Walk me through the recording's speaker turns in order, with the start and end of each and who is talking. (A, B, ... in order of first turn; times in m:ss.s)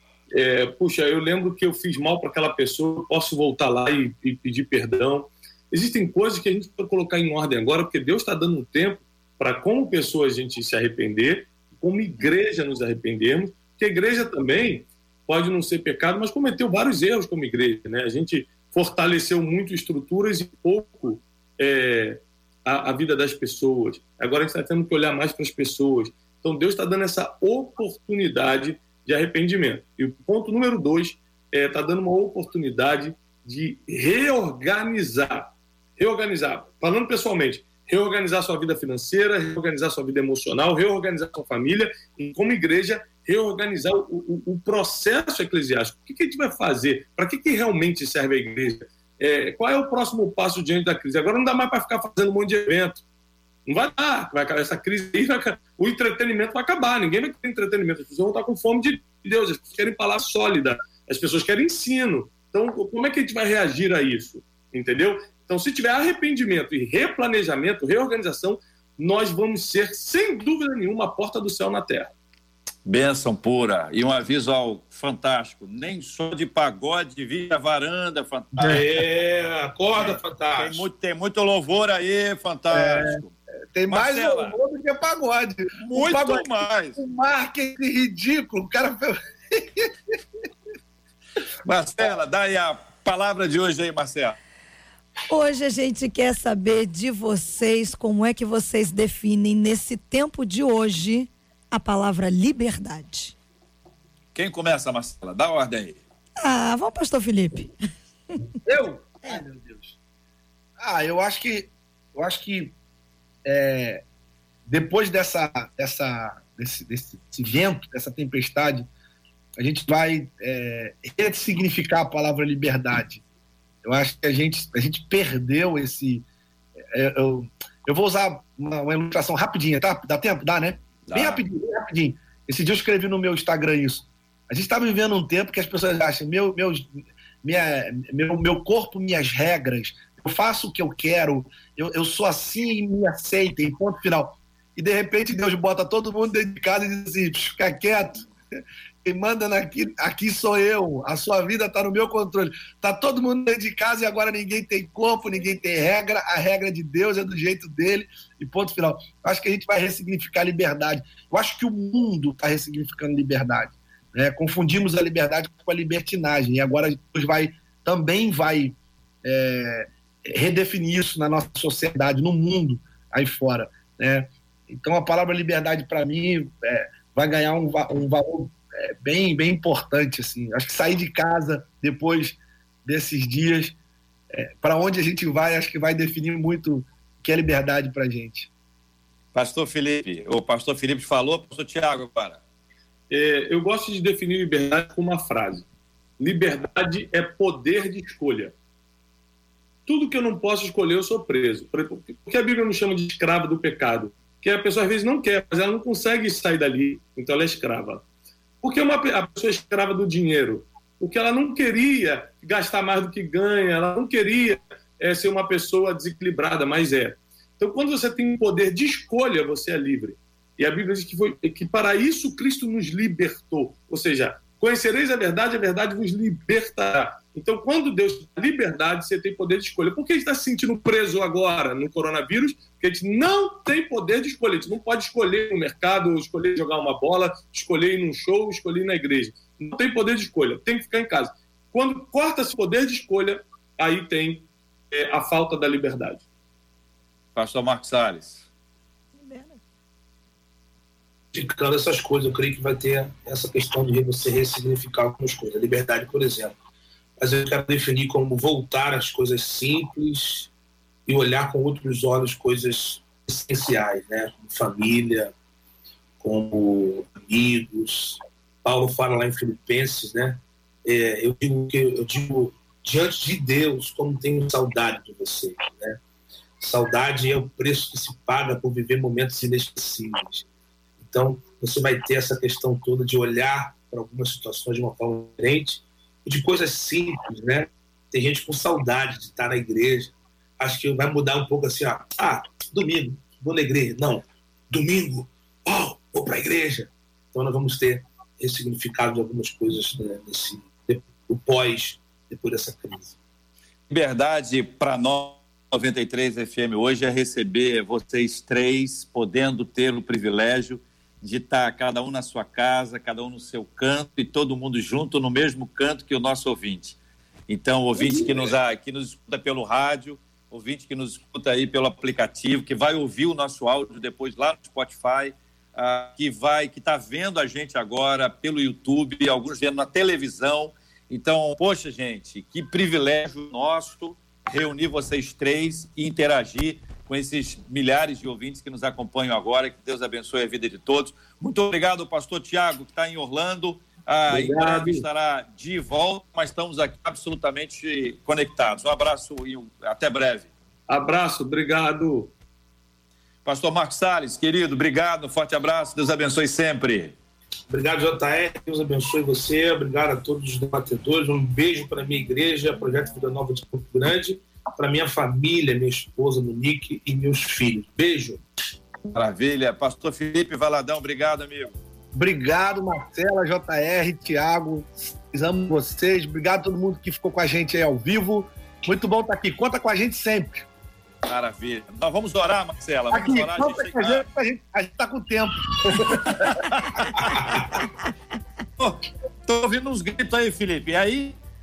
0:00.3-0:53.0 A
0:53.7-1:12.1 A
1:12.8-1:18.9 B
1:18.6-1:20.8 C
1:19.9-1:23.3 B
1:22.7-1:23.2 D
1:23.7-1:30.2 D
1:23.9-1:24.6 B
1:25.8-1:27.0 B
1:31.6-1:34.4 B
1:35.3-1:43.3 E
1:44.3-1:46.0 B
1:46.4-1:47.7 E
1:48.6-1:49.9 D
1:50.8-1:52.7 D
1:53.4-1:54.0 D
1:54.7-1:58.9 D
1:59.6-2:03.2 D
2:03.8-2:06.2 D
2:06.9-2:28.2 D
2:11.1-2:11.4 B
2:29.0-3:03.8 D
3:04.3-3:08.5 D
3:09.3-3:12.4 B
3:13.1-3:15.6 A
3:16.2-3:18.5 A
3:19.9-3:28.0 A
3:28.6-4:06.2 A
4:07.4-4:08.4 B
4:09.2-4:09.6 E
4:11.3-4:16.5 C
4:17.2-4:20.5 C
4:21.0-4:25.3 C
4:26.2-4:36.0 C
4:36.6-4:40.4 C
4:41.0-5:03.2 C
5:03.9-5:17.0 B
5:17.5-5:50.5 B
5:18.0-5:18.5 C
5:44.4-5:44.8 C
5:50.9-5:52.3 A
5:53.4-5:57.1 B
5:57.7-6:08.4 C
6:09.1-6:11.8 B
6:12.1-6:20.6 D
6:21.2-6:24.2 B
6:23.1-6:27.1 D
6:26.0-6:27.5 B
6:27.2-6:27.7 C
6:28.8-6:31.4 B